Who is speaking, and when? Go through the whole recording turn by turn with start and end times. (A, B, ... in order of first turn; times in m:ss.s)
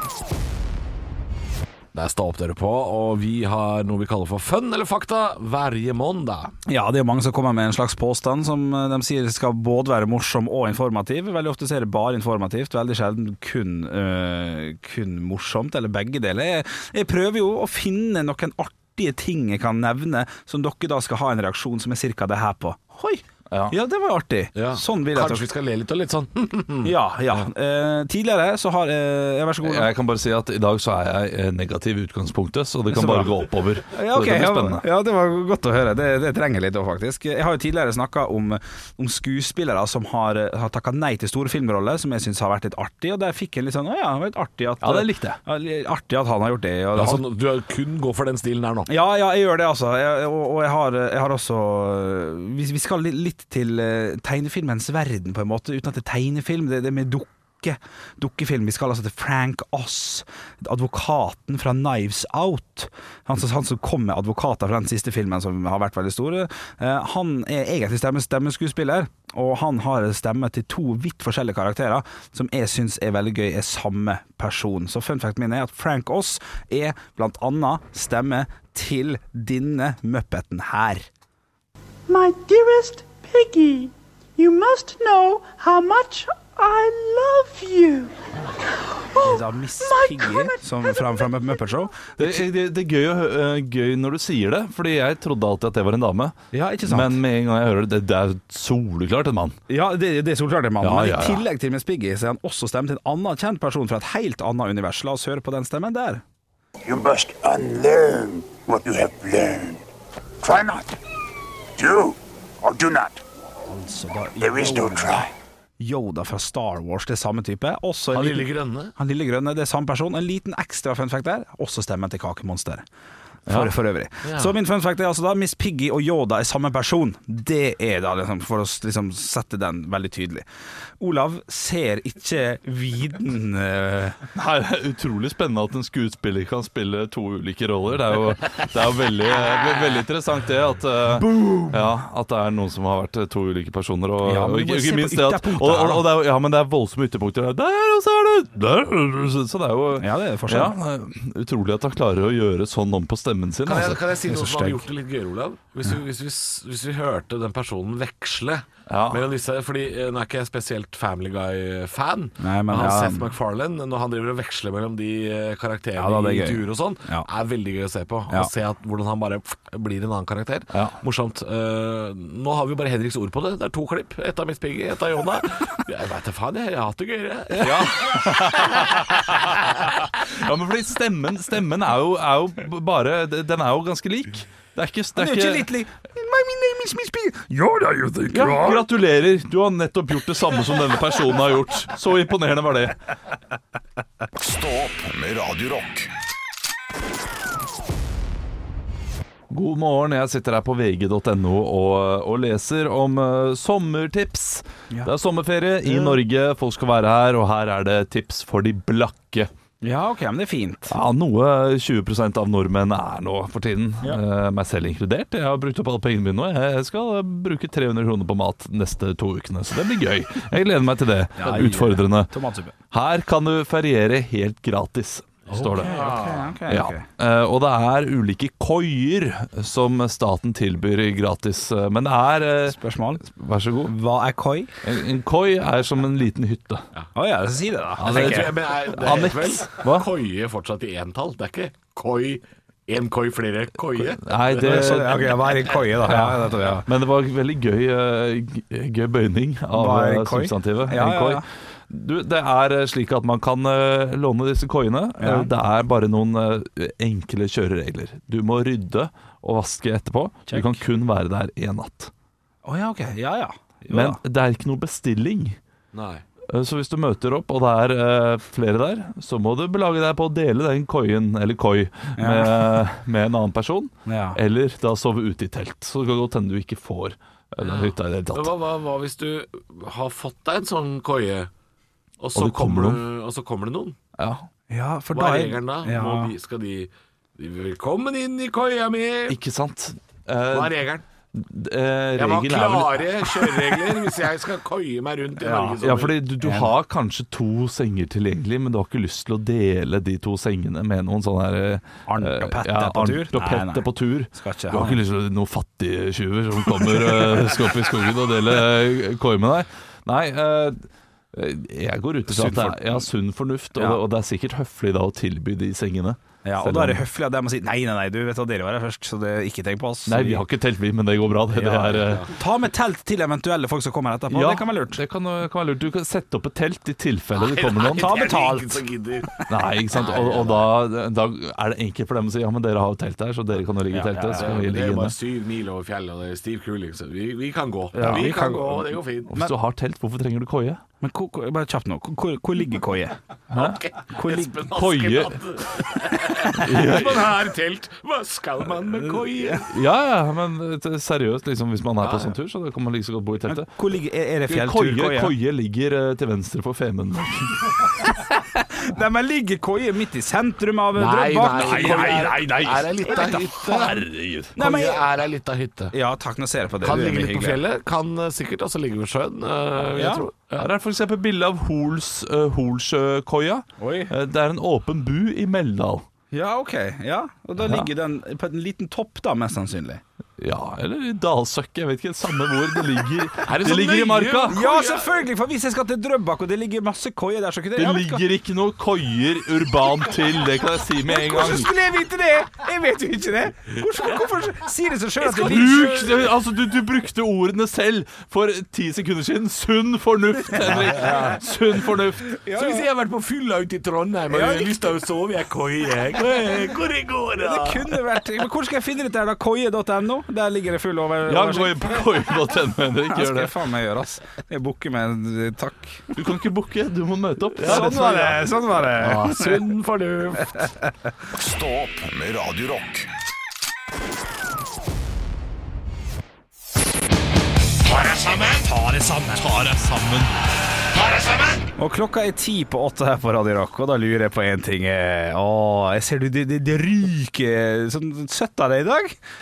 0:01.9-0:06.5 A
0:06.7-0:25.5 B
0:23.5-0:23.8 C
0:24.6-0:26.9 A
0:26.8-0:29.9 B
0:29.6-0:34.8 C
0:32.9-0:33.4 B
0:33.9-0:47.2 B
0:44.8-0:45.4 C
0:46.9-0:48.9 A
0:48.9-1:21.1 B
1:22.1-1:28.1 D
1:28.7-1:31.4 D
1:29.2-1:32.4 B
1:32.2-1:39.6 C
1:36.5-1:37.2 B
1:39.7-1:46.2 B
1:40.8-1:41.4 C
1:46.8-1:49.8 E
1:50.4-1:51.0 E
1:51.8-1:53.2 E
1:53.7-2:02.8 B
1:54.4-1:55.3 E
1:58.1-1:58.9 A
2:03.5-2:10.5 B
2:03.5-2:03.7 C
2:04.2-2:04.6 A
2:11.0-2:14.2 B
2:14.4-2:34.0 C
2:21.1-2:21.9 B
2:24.2-2:26.1 B
2:30.0-2:30.8 B
2:33.6-2:57.9 A
2:34.3-2:34.8 B
2:38.9-2:39.3 C
2:42.4-2:43.3 B
2:46.0-2:47.3 B
2:57.6-3:05.7 C
2:57.7-2:58.2 B
3:05.2-3:08.9 B
3:08.3-3:13.0 C
3:14.4-3:16.1 F
3:19.5-3:29.5 C
3:25.8-3:26.2 B
3:29.8-3:31.0 B
3:30.9-3:42.3 C
3:41.4-3:42.8 B
3:42.9-3:46.0 C
3:45.5-3:46.5 A
3:45.6-3:47.0 B
3:46.7-3:54.0 C
3:52.7-3:53.2 B
3:53.8-3:54.7 B
3:54.8-3:56.9 C
3:57.2-3:58.5 B
3:58.0-4:00.1 C
3:58.0-4:05.3 A
4:04.0-4:22.1 C
4:04.6-4:06.9 B
4:09.7-4:11.4 B
4:15.2-4:15.5 B
4:20.5-4:20.8 B
4:22.6-4:24.2 B
4:23.9-4:25.6 C
4:25.9-4:26.2 A
4:26.5-4:38.5 C
4:32.2-4:32.8 B
4:34.1-4:34.4 B
4:37.6-4:41.5 A
4:42.2-4:44.0 A
4:42.4-4:43.0 C
4:44.2-4:44.5 C
4:44.7-4:46.3 B
4:45.1-4:49.4 A
4:49.3-4:50.8 C
4:50.5-4:51.0 A
4:51.3-4:53.5 C
4:52.2-4:56.2 A
4:55.4-4:55.8 B
4:55.8-5:17.0 C
4:56.4-4:56.7 B
5:02.1-5:05.0 B
5:12.3-5:13.0 B
5:13.8-5:14.0 B
5:16.4-5:20.4 B
5:20.1-5:22.3 C
5:21.5-5:25.0 B
5:24.3-5:28.3 C
5:27.4-5:29.4 A
5:28.0-5:29.3 B
5:29.5-5:35.2 C
5:29.9-5:30.7 A
5:33.9-5:34.6 B
5:34.3-5:39.4 A
5:37.9-5:39.5 B
5:39.3-5:40.8 C
5:41.0-5:43.2 B
5:43.5-5:43.8 C
5:43.5-5:49.7 A
5:44.1-5:44.7 B
5:44.8-5:45.4 C
5:46.5-5:47.3 C
5:49.7-5:53.7 C
5:52.0-5:52.3 A
5:53.4-5:55.4 B
5:54.5-5:58.0 C
5:58.2-6:03.9 B
6:01.0-6:04.0 A
6:03.2-6:04.6 C
6:04.6-6:05.0 B
6:04.6-6:06.0 A
6:05.9-6:07.6 B
6:06.8-6:10.7 A
6:10.0-6:10.3 B
6:10.6-6:16.0 C
6:13.8-6:14.1 B
6:16.3-6:20.0 B
6:17.6-6:17.9 C
6:20.4-6:24.6 C
6:23.5-6:25.2 A
6:24.5-6:28.2 B
6:27.8-6:31.7 C
6:31.1-6:35.9 B
6:35.2-6:36.3 A
6:35.4-6:42.4 C
6:40.6-6:41.4 B
6:41.0-6:41.3 A
6:42.4-6:42.9 B
6:42.5-6:47.9 A
6:44.3-6:44.9 B
6:47.4-6:52.2 B
6:51.3-6:53.5 C
6:53.1-6:56.2 B
6:56.2-6:58.5 C
6:57.6-6:58.0 A
6:57.6-6:59.7 B
6:59.0-7:00.7 A
7:00.6-7:00.9 B
7:01.3-7:03.1 F
7:07.9-7:08.6 A
7:08.6-7:09.9 B
7:09.4-7:10.3 C
7:11.0-7:11.6 A
7:11.8-7:19.2 B